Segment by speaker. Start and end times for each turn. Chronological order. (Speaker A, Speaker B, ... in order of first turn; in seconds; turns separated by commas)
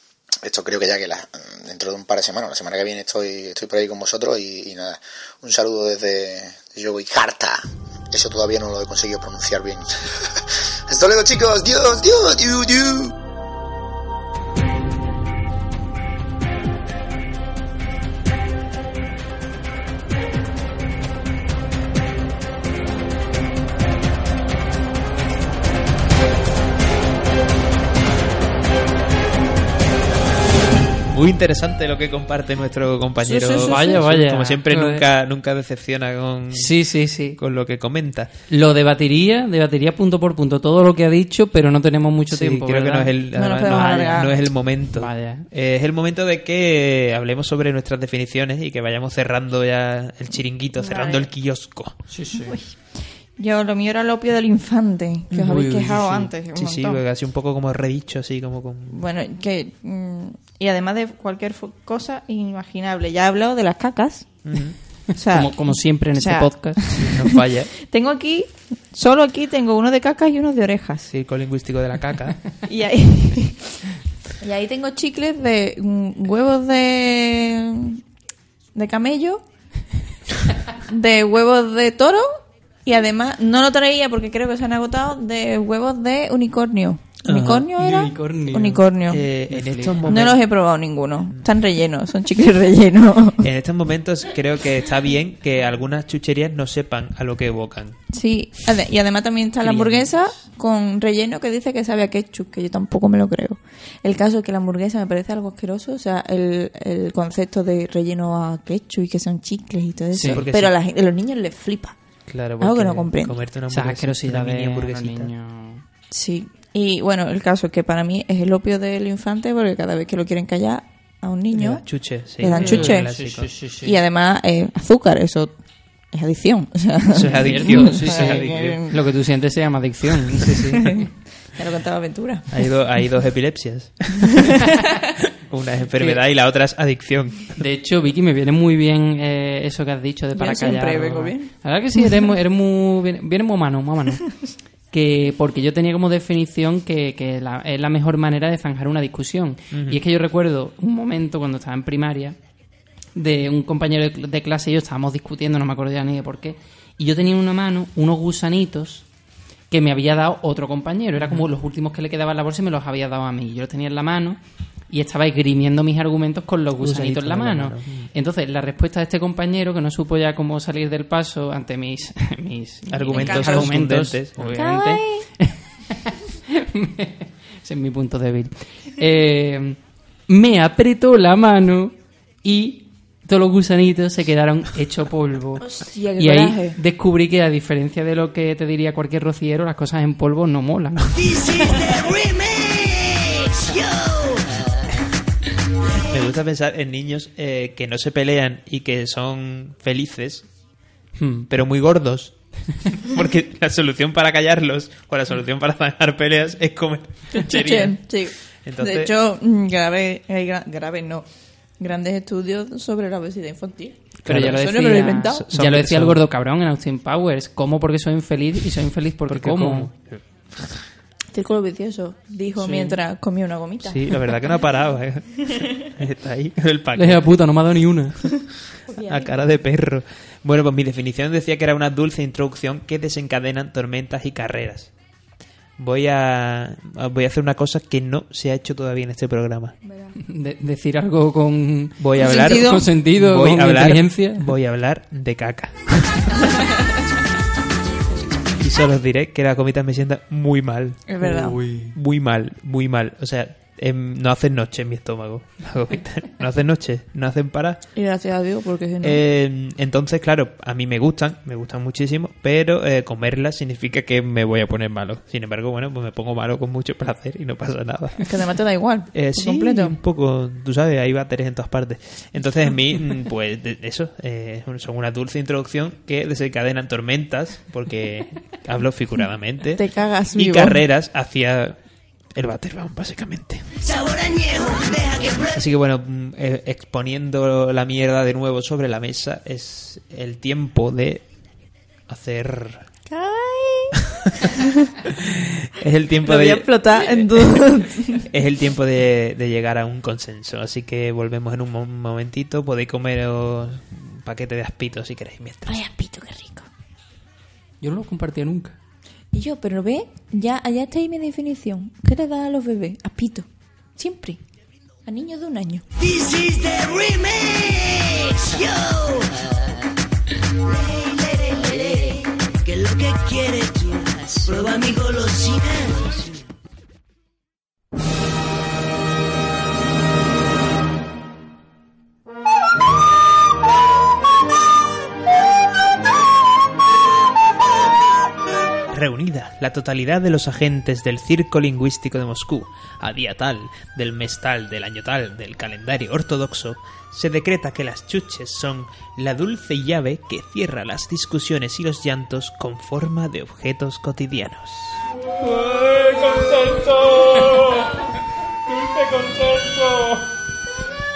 Speaker A: 0.4-13.1, Speaker B: 31.1-36.8, Speaker C: 33.2-34.0, Speaker D: 33.5-35.0, Speaker D: 36.5-37.4, Speaker B: 37.3-38.3, Speaker D: 38.5-44.3, Speaker B: 42.3-52.0, Speaker C: 43.4-44.3, Speaker D: 44.9-45.5, Speaker C: 50.8-51.3, Speaker D: 52.1-52.6, Speaker C: 52.4-57.0, Speaker D: 55.3-56.3, Speaker B: 56.5-59.0, Speaker C: 58.9-64.4, Speaker B: 64.4-64.8, Speaker C: 65.1-71.1, Speaker D: 65.3-67.1, Speaker B: 67.1-67.7, Speaker B: 71.1-72.4, Speaker C: 72.7-73.8, Speaker C: 74.4-78.0, Speaker C: 78.7-79.4, Speaker C: 80.8-89.2, Speaker B: 87.2-87.7, Speaker D: 87.7-88.8, Speaker B: 89.1-90.4, Speaker D: 89.5-90.2, Speaker C: 90.1-93.4, Speaker B: 93.4-98.0, Speaker C: 98.1-112.0, Speaker D: 99.6-100.3, Speaker D: 110.2-110.4, Speaker B: 110.2-110.7, Speaker B: 112.3-115.3, Speaker C: 112.6-113.4, Speaker D: 113.7-115.8, Speaker C: 116.1-121.8, Speaker B: 121.5-123.5, Speaker C: 122.4-123.1, Speaker D: 122.5-124.0, Speaker C: 123.8-125.5, Speaker C: 126.1-128.9, Speaker B: 127.1-128.8, Speaker D: 127.4-131.1, Speaker C: 130.8-132.5, Speaker B: 132.5-134.6, Speaker B: 135.3-137.6, Speaker D: 137.6-152.4, Speaker C: 140.3-141.5, Speaker B: 149.7-150.0, Speaker D: 153.1-159.1, Speaker D: 159.7-164.4, Speaker B: 161.2-161.4, Speaker D: 164.9-191.6, Speaker B: 166.8-168.1, Speaker B: 172.9-174.6, Speaker C: 173.1-173.7, Speaker C: 174.5-175.2, Speaker C: 185.6-186.8, Speaker E: 191.1-194.8, Speaker B: 196.1-200.5, Speaker D: 201.2-201.5, Speaker B: 201.5-209.1, Speaker C: 207.3-211.2, Speaker C: 211.8-215.5, Speaker B: 214.2-214.7, Speaker D: 214.2-219.9, Speaker B: 215.3-216.2, Speaker B: 219.3-220.7, Speaker C: 221.3-224.3, Speaker D: 222.6-223.0, Speaker B: 223.8-227.4, Speaker D: 226.9-228.5, Speaker C: 228.9-229.3, Speaker B: 228.9-234.9, Speaker B: 235.8-239.8, Speaker D: 240.2-244.5, Speaker B: 242.0-246.7, Speaker C: 242.1-242.8, Speaker B: 248.6-251.2, Speaker C: 251.1-251.6, Speaker D: 251.2-251.9, Speaker B: 251.9-257.8, Speaker C: 257.9-259.2, Speaker B: 259.0-268.2, Speaker C: 268.2-269.9, Speaker B: 269.1-279.8, Speaker C: 279.8-280.8, Speaker B: 280.3-281.8, Speaker B: 282.3-283.7, Speaker E: 283.8-285.6, Speaker B: 285.6-291.2, Speaker B: 292.1-292.8, Speaker C: 293.1-294.6, Speaker B: 295.0-297.6, Speaker C: 296.2-298.2, Speaker B: 298.2-305.8, Speaker C: 305.7-306.7, Speaker D: 307.8-308.8, Speaker C: 309.3-314.4, Speaker C: 315.1-315.8, Speaker E: 316.0-319.6, Speaker E: 320.6-326.5, Speaker B: 338.9-358.0, Speaker B: 358.7-360.2